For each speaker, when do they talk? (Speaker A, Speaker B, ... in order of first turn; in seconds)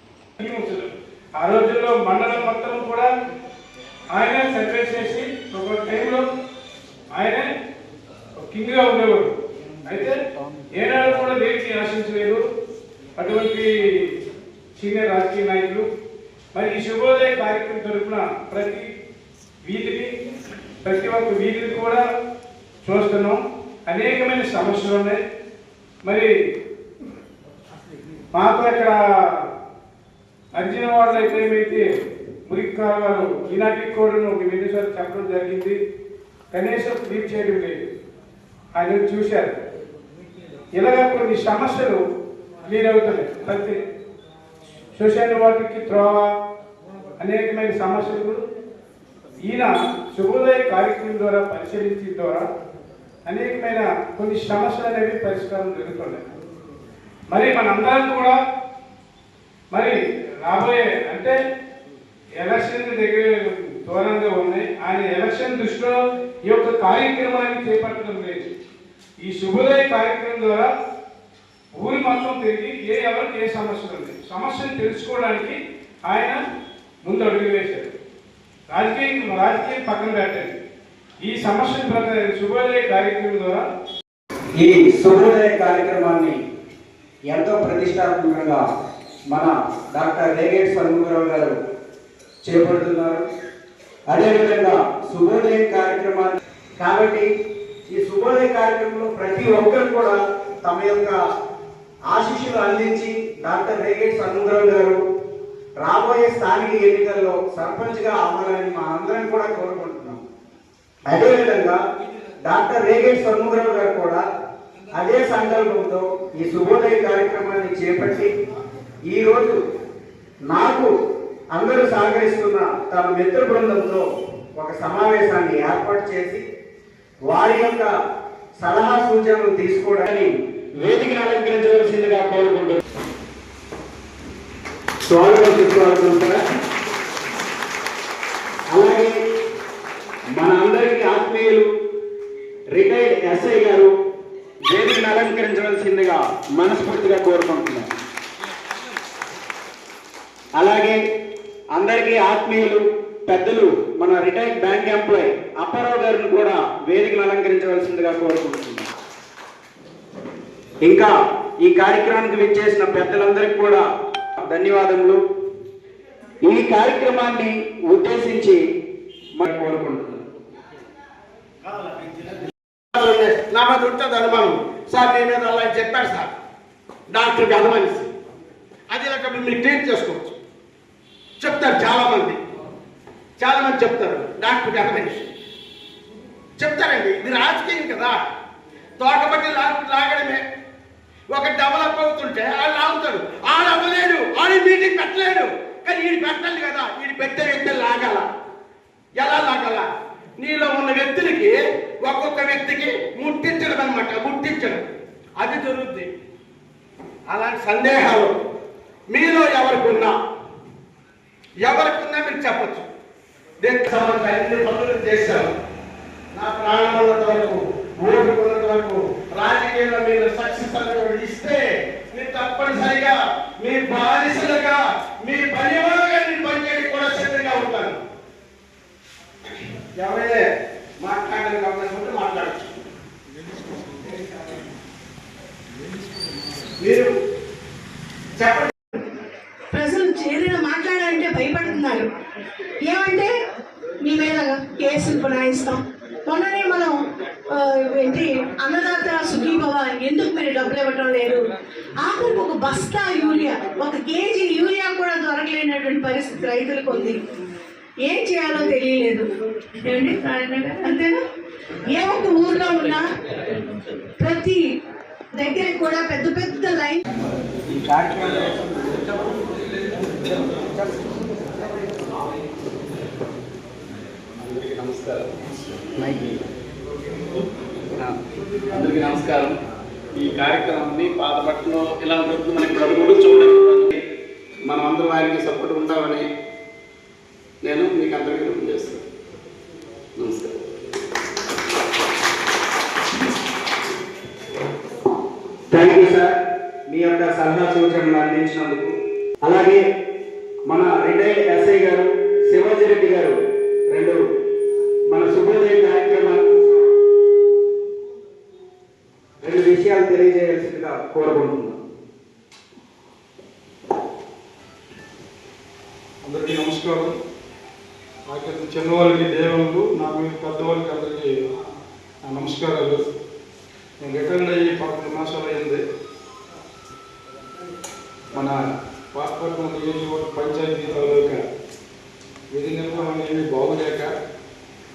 Speaker A: 0.4-3.1, 4.1-6.2, 7.1-7.5, 8.4-9.3, 9.8-10.2, 10.7-12.4, 13.2-14.2, 14.8-15.9, 16.5-18.9, 19.6-20.1, 20.8-22.0, 22.8-25.2, 26.0-26.3, 28.3-29.5, 30.5-31.9, 32.5-35.8, 36.5-37.9, 38.7-39.6, 40.7-42.0, 42.6-43.8, 44.9-46.3, 47.2-48.4, 49.5-52.5, 53.2-56.2, 57.3-58.4, 59.7-61.4, 62.4-68.5, 69.2-70.7, 71.8-76.4, 77.0-77.9, 78.7-80.5, 81.2-83.7, 316.2-317.1, 318.3-321.3, 322.2-323.0, 324.0-325.8, 329.8-331.3, 332.5-334.0
Speaker B: 84.6-86.4, 87.3-88.6, 89.3-91.6, 92.4-93.2, 94.1-97.3, 97.9-101.2, 102.1-105.0, 105.8-110.2, 111.1-111.8, 112.4-114.2, 114.9-118.3, 119.1-119.6, 120.5-120.9, 121.5-124.0, 124.6-126.4, 127.3-127.9, 128.6-132.8, 135.1-136.4, 138.7-139.1, 140.3-141.7, 142.7-143.9, 144.7-147.9, 150.6-151.0, 151.8-158.9, 160.8-163.8, 164.4-165.2, 166.4-168.6, 169.4-170.2, 267.7-269.0, 295.7-296.4, 296.9-299.8, 300.7-303.4, 303.9-304.3, 305.1-306.8, 309.4-311.8
Speaker C: 171.7-172.4, 172.9-176.3, 177.1-178.1, 178.9-180.3, 181.4-182.4, 183.4-185.3, 186.6-188.2, 189.0-190.4, 191.3-198.3, 199.2-204.8, 205.4-206.1, 207.3-208.3, 209.1-210.1, 211.6-212.9, 213.6-215.5, 216.3-228.0, 229.9-230.4, 231.0-232.7, 236.8-237.1, 238.4-238.7
Speaker D: 239.7-242.1, 242.8-243.3, 244.0-251.4, 252.0-257.2, 258.0-259.3, 259.8-261.2, 261.9-263.1, 264.2-264.7, 265.3-267.0
Speaker E: 274.4-275.3, 278.7-279.6, 280.1-283.9, 284.7-286.3, 287.6-289.0, 290.2-290.5, 320.2-321.2, 324.9-325.4, 329.2-330.4, 330.9-331.3, 332.8-334.1